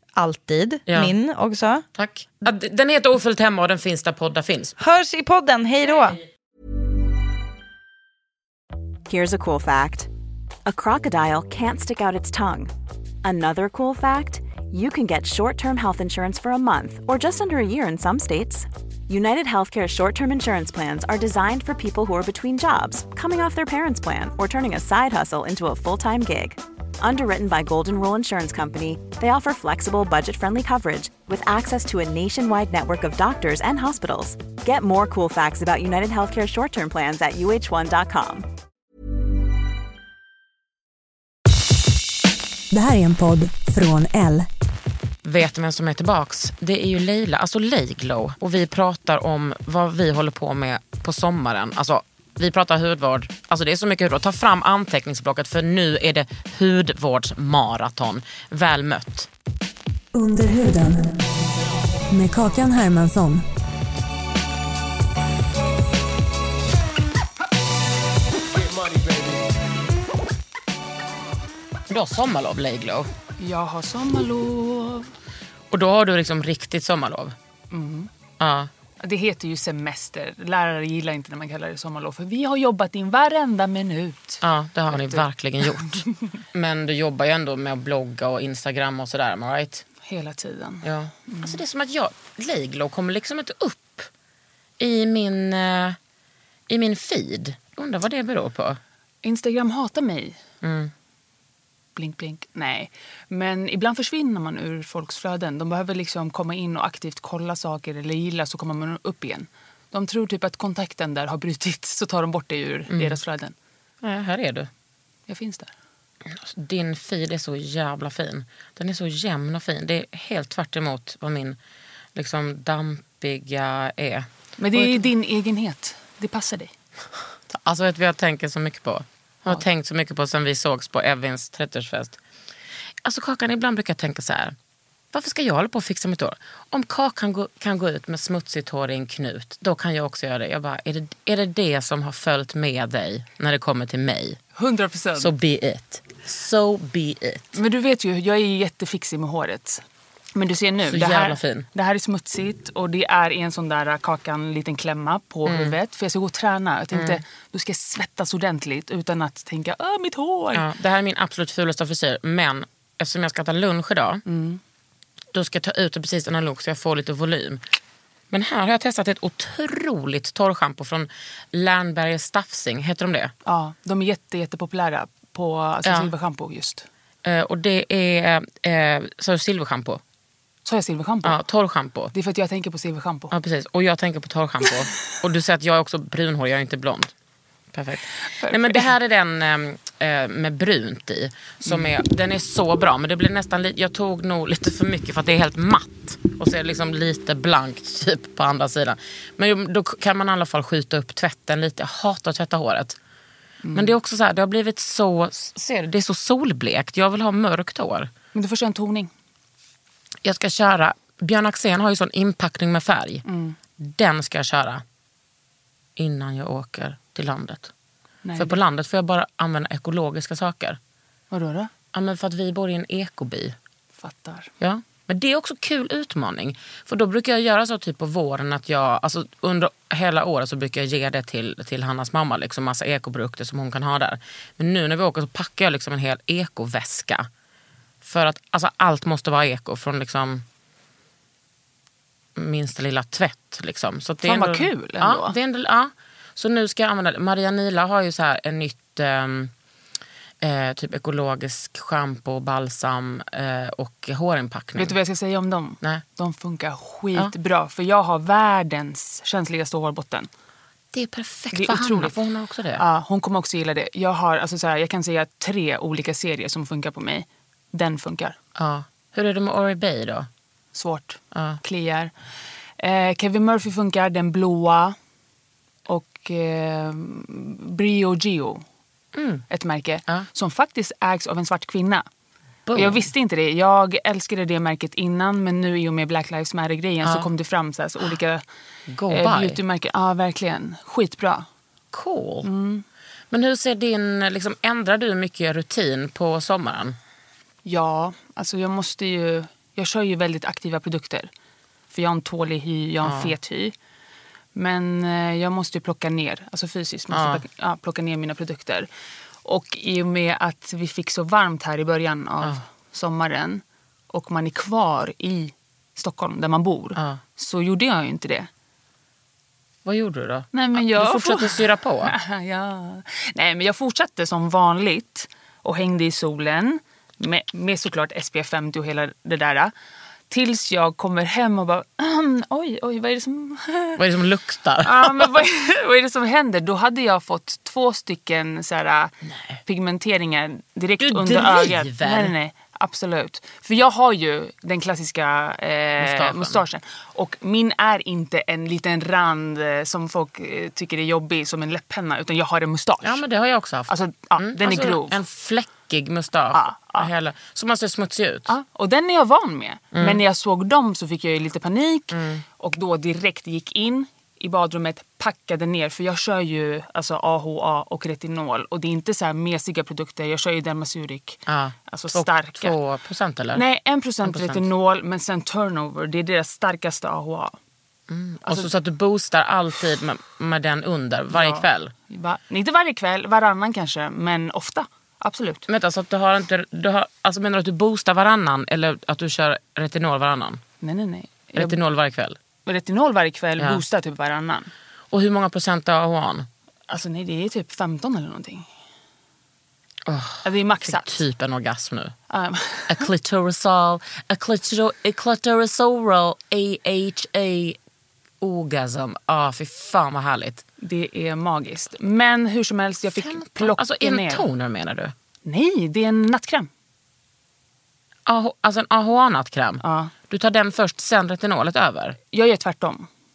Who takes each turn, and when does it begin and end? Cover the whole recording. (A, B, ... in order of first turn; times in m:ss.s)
0:00.2-0:01.8 A
0:00.9-0:01.1 B
0:02.0-0:04.8 B
0:04.8-0:06.2 A
0:09.1-0:10.1 C
0:10.7-0:12.7 C
0:13.2-0:38.4 C
0:42.7-0:44.5 D
0:45.2-0:59.3 B
1:00.1-1:01.2 D
1:02.1-1:03.4 D
1:11.9-1:13.1 B
1:13.4-1:15.1 E
1:15.7-1:17.4 B
1:17.7-1:18.1 E
1:18.4-1:18.7 B
1:19.0-1:26.1 E
1:24.4-1:29.8 B
1:30.0-1:31.6 E
1:30.8-1:34.1 B
1:34.8-1:36.0 B
1:36.7-1:38.8 B
1:39.2-1:40.4 E
1:40.6-1:40.9 B
1:42.0-1:53.6 E
1:52.9-1:53.2 B
1:54.0-1:54.7 B
1:55.3-1:55.7 E
1:56.3-2:01.6 B
2:02.2-2:05.1 B
2:04.6-2:06.7 E
2:07.5-2:12.2 B
2:13.0-2:14.6 B
2:15.1-2:24.4 B
2:24.6-2:25.3 E
2:25.2-2:27.6 B
2:27.6-2:29.8 E
2:30.4-2:40.7 E
2:30.9-2:31.7 B
2:35.5-2:35.8 B
2:36.9-2:37.2 B
2:40.5-2:44.2 B
2:44.3-2:44.6 E
2:45.3-2:47.6 B
2:48.3-2:53.3 B
2:53.4-2:56.9 E
2:55.8-2:56.1 B
2:57.2-3:00.0 B
3:00.7-3:01.4 E
3:01.2-3:02.1 B
3:02.1-3:03.3 E
3:03.3-3:07.1 B
3:07.7-3:23.0 B
3:08.3-3:08.9 E
3:23.6-3:23.9 E
3:23.7-3:28.1 B
3:28.3-3:29.1 E
3:30.2-3:33.2 B
3:33.3-3:33.6 E
3:33.8-3:34.8 B
3:36.0-3:37.7 B
3:38.2-3:38.6 E
3:38.4-3:40.8 B
3:41.3-3:41.7 E
3:41.9-3:43.6 B
3:44.0-3:44.5 E
3:44.6-3:57.3 B
3:58.0-4:00.4 B
4:02.4-4:09.5 B
4:04.2-4:05.4 E
4:10.4-4:15.0 B
4:14.8-4:20.3 E
4:20.9-4:22.8 B
4:21.5-4:22.2 E
4:22.8-4:28.4 E
4:28.6-4:30.3 B
4:30.7-4:32.1 E
4:31.3-4:31.6 B
4:32.8-4:35.0 E
4:35.9-4:38.6 E
4:39.1-4:39.4 B
4:39.5-4:42.0 E
4:42.7-4:43.1 B
4:42.8-4:48.4 E
4:48.9-4:49.6 B
4:49.1-4:51.5 E
4:51.9-4:52.5 B
4:52.4-4:52.8 E
4:53.3-4:57.0 B
4:57.6-5:01.3 E
5:01.9-5:03.7 E
5:03.0-5:03.3 B
5:04.6-5:08.9 E
5:07.1-5:07.4 B
5:09.4-5:18.5 E
5:17.0-5:17.2 B
5:19.8-5:22.1 B
5:20.5-5:29.7 E
5:30.3-5:34.0 E
5:34.0-5:35.4 B
5:34.8-5:53.2 E
5:39.2-5:39.6 B
5:41.0-5:42.3 B
5:46.0-5:46.6 B
5:53.0-5:58.5 B
5:53.9-5:55.2 E
5:56.5-5:57.1 E
5:58.5-6:12.8 E
6:00.0-6:00.2 B
6:02.1-6:02.4 B
6:11.5-6:13.6 B
6:13.5-6:17.6 E
6:14.2-6:14.6 B
6:18.1-6:21.9 B
6:21.3-6:25.7 E
6:25.7-6:30.6 B
6:30.8-6:31.8 E
6:31.6-6:32.4 B
6:32.7-6:34.7 E
6:35.1-6:36.5 B
6:36.9-6:38.7 E
6:40.1-6:42.1 B
6:40.4-6:41.2 E
6:42.3-6:43.1 E
6:42.9-6:47.8 B
6:48.4-6:50.6 B
6:50.8-6:54.5 E
6:53.1-6:55.1 B
6:55.4-6:56.7 E
6:58.3-7:02.2 B
6:59.8-7:00.1 E
7:02.3-7:03.1 E